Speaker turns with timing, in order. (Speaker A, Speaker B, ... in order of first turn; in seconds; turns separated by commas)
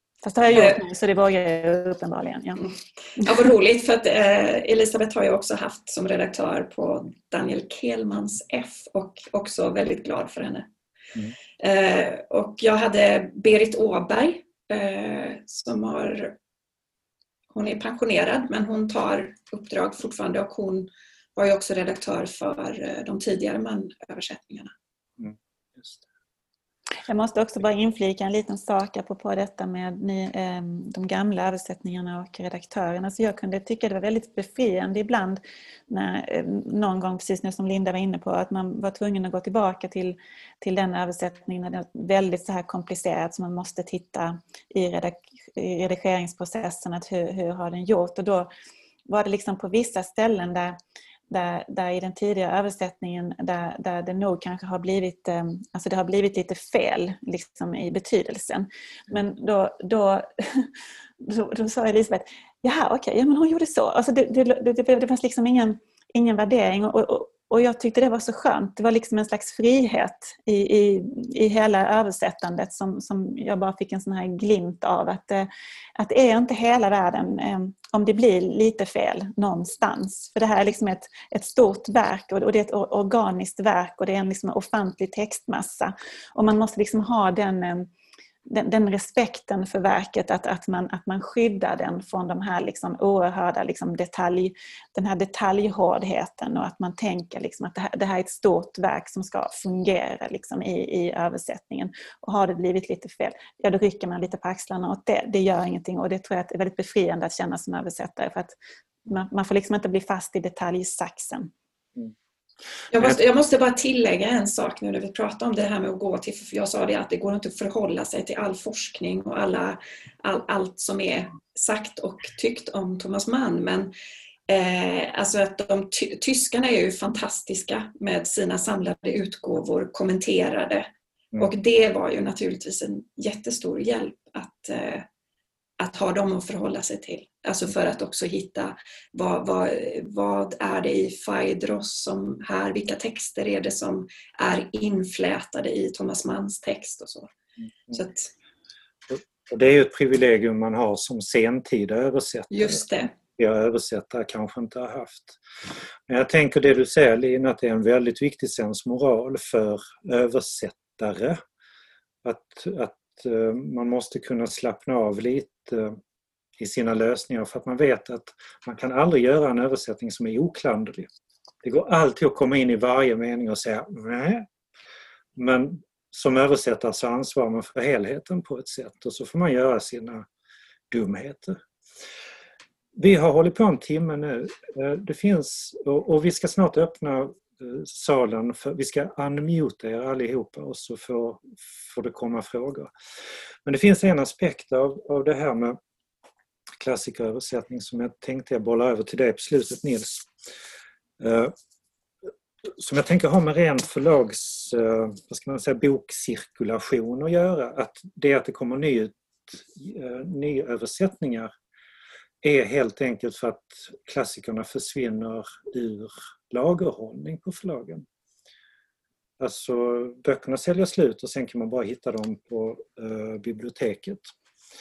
Speaker A: 0.2-2.7, Speaker B: 0.5-0.8, Speaker B: 3.2-10.7, Speaker B: 11.6-16.4, Speaker B: 17.5-24.7, Speaker C: 25.2-26.0, Speaker A: 27.1-48.5, Speaker A: 49.1-50.8, Speaker A: 51.3-60.7, Speaker A: 61.2-87.9, Speaker A: 88.5-108.5, Speaker A: 109.1-111.5, Speaker B: 112.9-123.9, Speaker C: 112.9-113.2, Speaker B: 124.5-135.1, Speaker B: 135.8-147.3, Speaker C: 147.6-147.9, Speaker B: 147.9-148.3, Speaker C: 149.1-152.8, Speaker B: 152.5-153.1, Speaker C: 153.4-155.4, Speaker C: 156.1-161.4, Speaker C: 162.2-166.0, Speaker C: 166.6-171.1, Speaker C: 171.6-174.5, Speaker C: 175.3-180.3, Speaker C: 180.9-181.6, Speaker C: 182.9-192.9, Speaker C: 193.6-195.8, Speaker C: 196.8-200.3, Speaker C: 201.2-201.5, Speaker C: 202.6-211.5, Speaker C: 212.4-218.1, Speaker C: 219.4-224.3